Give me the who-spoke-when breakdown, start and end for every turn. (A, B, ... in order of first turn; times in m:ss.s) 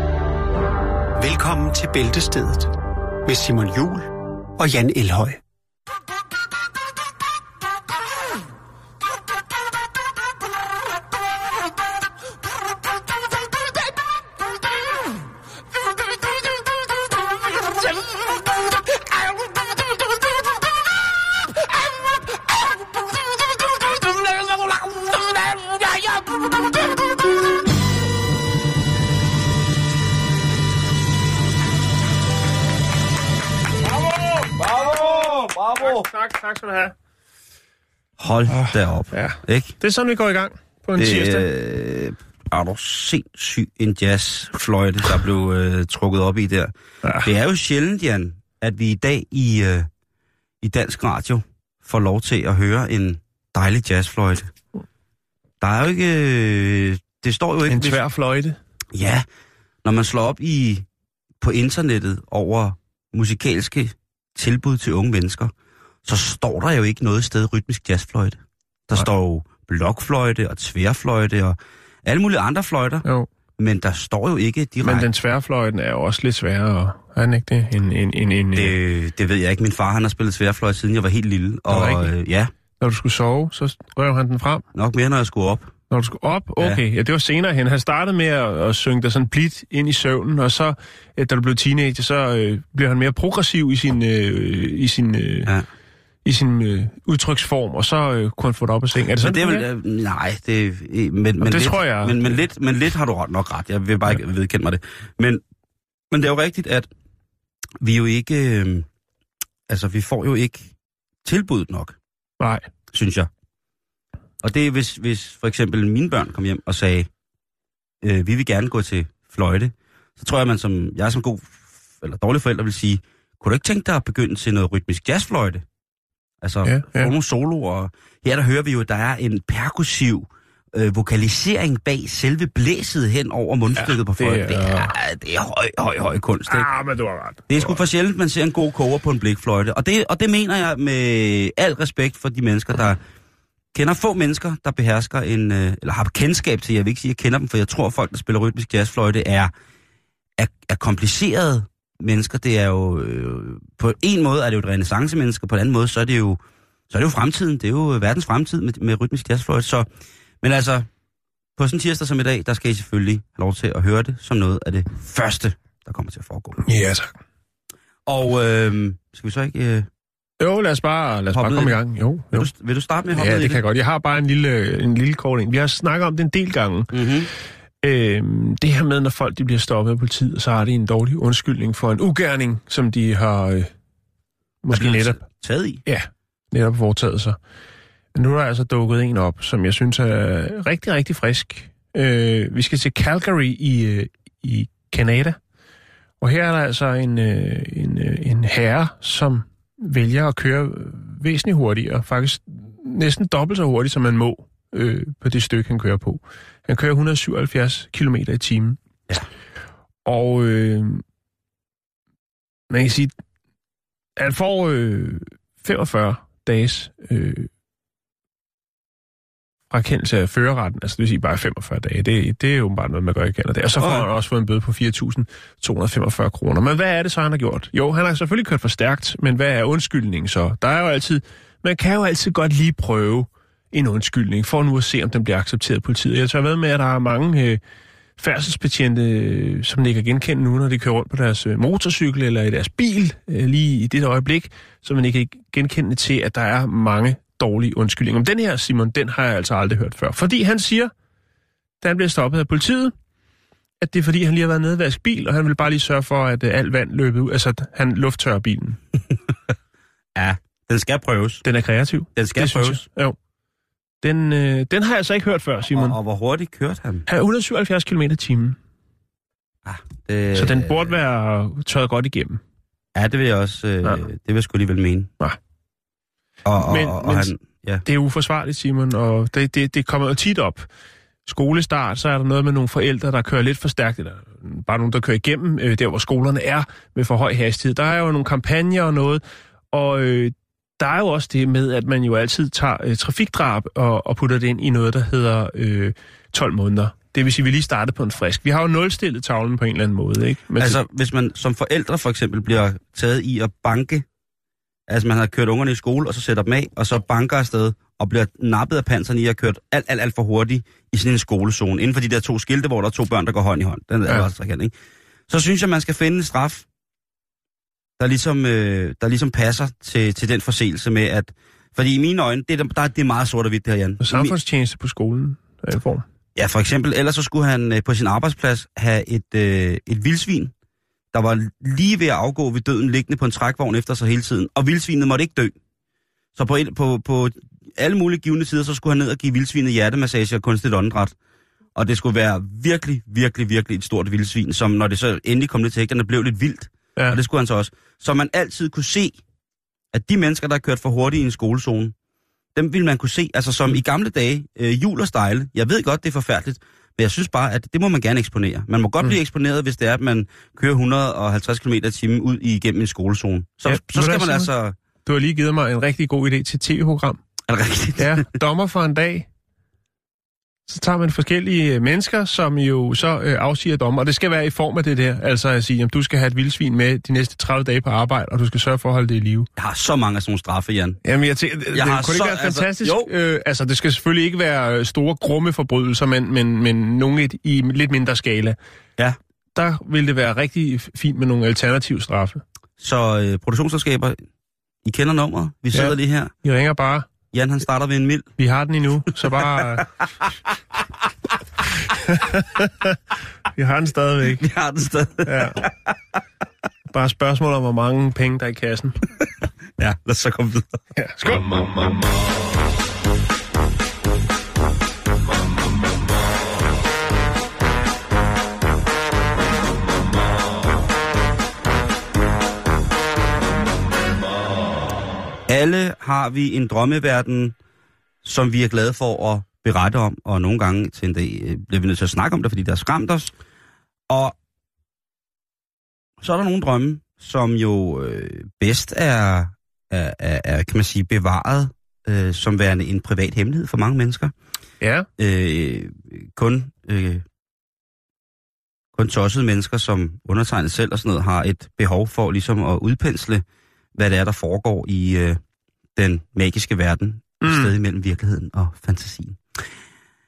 0:01.2-0:02.7 A
0:03.3-0:05.4 A
0:24.3-0:26.2 B
0:34.1-0:34.5 C
0:34.6-0:36.0 B
0:35.8-0:36.9 C
0:38.2-0:39.7 B
0:38.5-0:41.5 C
0:41.0-0:49.9 B
0:47.0-0:47.3 C
0:50.6-0:54.5 B
0:55.6-0:58.0 B
0:57.7-0:58.6 C
0:58.9-0:59.3 B
0:59.8-1:00.9 B
1:01.4-1:05.5 B
1:06.0-1:13.0 B
1:13.6-1:15.1 B
1:14.8-1:18.8 C
1:18.6-1:22.5 B
1:21.7-1:22.1 C
1:22.8-1:24.6 C
1:24.7-1:25.7 B
1:25.9-1:35.5 C
1:36.2-1:39.6 C
1:39.2-1:45.4 B
1:41.4-1:42.2 C
1:46.1-1:46.9 B
1:47.8-1:48.9 B
1:49.7-1:50.7 B
1:51.2-1:52.0 B
1:52.4-1:52.7 C
1:52.9-1:53.3 B
1:54.4-1:57.1 B
1:58.0-2:05.6 B
2:06.4-2:16.7 B
2:06.6-2:07.1 C
2:13.8-2:15.0 C
2:16.5-2:17.8 C
2:17.5-2:23.0 B
2:23.7-2:29.5 B
2:30.4-2:39.9 B
2:40.4-2:40.9 B
2:41.6-2:46.6 B
2:46.6-2:47.2 C
2:48.1-2:49.9 B
2:50.4-2:52.5 C
2:51.3-2:51.8 B
2:52.3-2:53.6 B
2:53.2-2:56.9 C
2:56.9-2:57.3 B
2:57.8-3:03.7 C
3:04.6-3:05.2 C
3:04.7-3:05.8 B
3:05.9-3:07.4 C
3:08.2-3:15.4 C
3:16.2-3:28.8 C
3:30.0-3:31.0 C
3:32.7-3:33.1 C
3:34.2-3:37.5 C
3:39.7-3:57.6 C
3:43.8-3:44.1 B
3:58.2-4:10.9 C
4:11.8-4:12.9 C
4:13.8-4:18.8 C
4:20.2-4:21.4 B
4:21.4-4:23.2 C
4:22.2-4:22.8 B
4:24.0-4:26.0 C
4:25.7-4:27.1 B
4:27.1-4:28.6 C
4:29.6-4:31.0 B
4:30.3-4:32.4 C
4:33.0-4:35.1 B
4:36.5-4:37.8 B
4:36.6-4:37.3 C
4:37.8-4:40.7 C
4:41.3-5:00.8 C
5:00.6-5:04.1 B
5:04.9-5:14.7 B
5:15.3-5:16.7 B
5:18.0-5:24.4 B
5:24.0-5:26.0 C
5:26.4-5:30.5 B
5:31.1-5:35.6 B
5:36.4-5:41.1 B
5:41.8-5:49.2 B
5:49.9-5:51.9 B
5:52.6-6:04.8 B
6:03.7-6:04.5 C
6:05.1-6:07.2 C
6:07.5-6:08.3 B
6:08.0-6:09.3 C
6:10.7-6:19.5 C
6:19.6-6:21.0 B
6:21.0-6:28.6 C
6:21.7-6:23.1 B
6:29.6-6:32.4 C
6:32.8-6:34.2 B
6:34.8-6:36.3 B
6:35.7-6:37.1 C
6:37.3-6:38.3 B
6:38.4-6:39.9 C
6:39.3-6:39.8 B
6:42.1-6:43.0 C
6:43.6-6:44.4 C
6:44.4-6:46.0 B
6:45.2-6:45.6 C
6:46.9-6:49.0 C
6:49.8-6:50.8 B
6:51.0-6:51.6 C
7:05.5-7:07.6 B
7:08.2-7:13.3 B
7:14.1-7:14.4 B
7:16.2-7:24.3 B
7:24.8-7:25.1 C
7:25.2-7:27.2 B
7:29.0-7:35.4 B
7:36.0-7:39.4 B
7:37.4-7:37.7 C